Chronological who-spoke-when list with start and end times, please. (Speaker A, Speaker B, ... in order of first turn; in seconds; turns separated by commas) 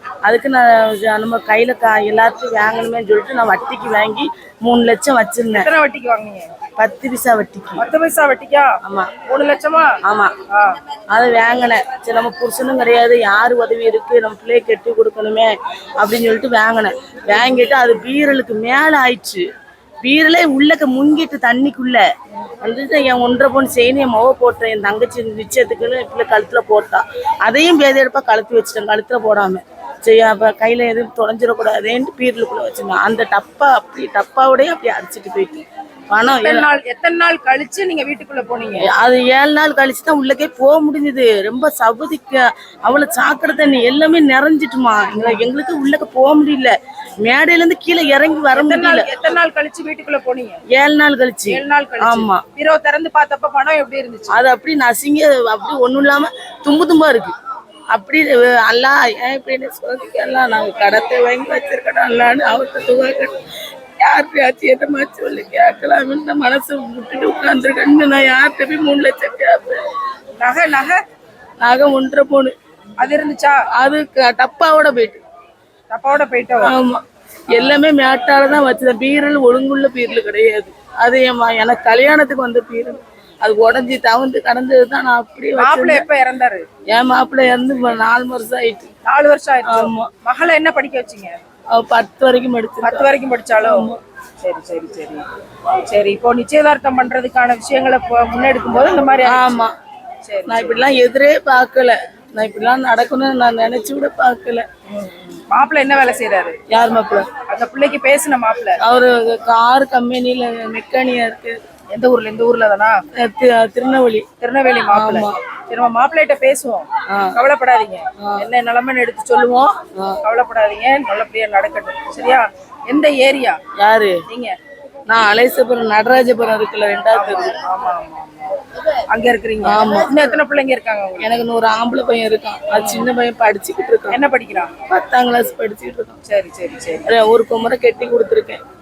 Speaker A: 0.2-5.7, Speaker B: 5.5-6.5, Speaker A: 6.8-7.9, Speaker B: 7.8-10.0, Speaker A: 8.8-9.1, Speaker A: 10.0-10.4, Speaker B: 10.5-10.8, Speaker A: 11.1-19.5, Speaker A: 20.0-22.1, Speaker A: 22.6-36.7, Speaker B: 36.3-38.9, Speaker A: 38.8-49.1, Speaker B: 48.5-50.6, Speaker A: 50.7-52.4, Speaker B: 51.5-54.4, Speaker A: 54.3-57.4, Speaker A: 57.9-63.4, Speaker A: 64.0-69.8, Speaker B: 70.4-71.0, Speaker A: 71.6-72.5, Speaker B: 73.0-73.7, Speaker A: 73.7-75.2, Speaker B: 75.9-76.7, Speaker A: 76.6-86.1, Speaker B: 77.5-77.8, Speaker B: 85.6-86.7, Speaker A: 86.9-88.9, Speaker B: 89.0-91.4, Speaker A: 89.7-90.1, Speaker A: 91.7-93.1, Speaker B: 92.8-93.9, Speaker A: 93.6-94.0, Speaker B: 94.4-95.2, Speaker B: 95.9-99.6, Speaker A: 99.2-99.8, Speaker B: 100.3-100.9, Speaker A: 100.5-104.7, Speaker B: 104.9-106.6, Speaker A: 106.7-107.3, Speaker B: 107.5-108.8, Speaker A: 108.8-111.6, Speaker B: 111.9-113.0, Speaker A: 113.2-114.2, Speaker B: 114.4-123.6, Speaker A: 114.9-115.4, Speaker A: 117.1-117.4, Speaker A: 118.2-118.5, Speaker A: 123.8-124.2, Speaker B: 124.3-124.6, Speaker A: 125.1-127.6, Speaker B: 127.1-131.3, Speaker A: 129.6-130.4, Speaker A: 131.2-134.2, Speaker B: 132.8-133.1, Speaker B: 134.1-134.7, Speaker A: 134.9-136.2, Speaker B: 136.2-137.1, Speaker A: 137.1-138.6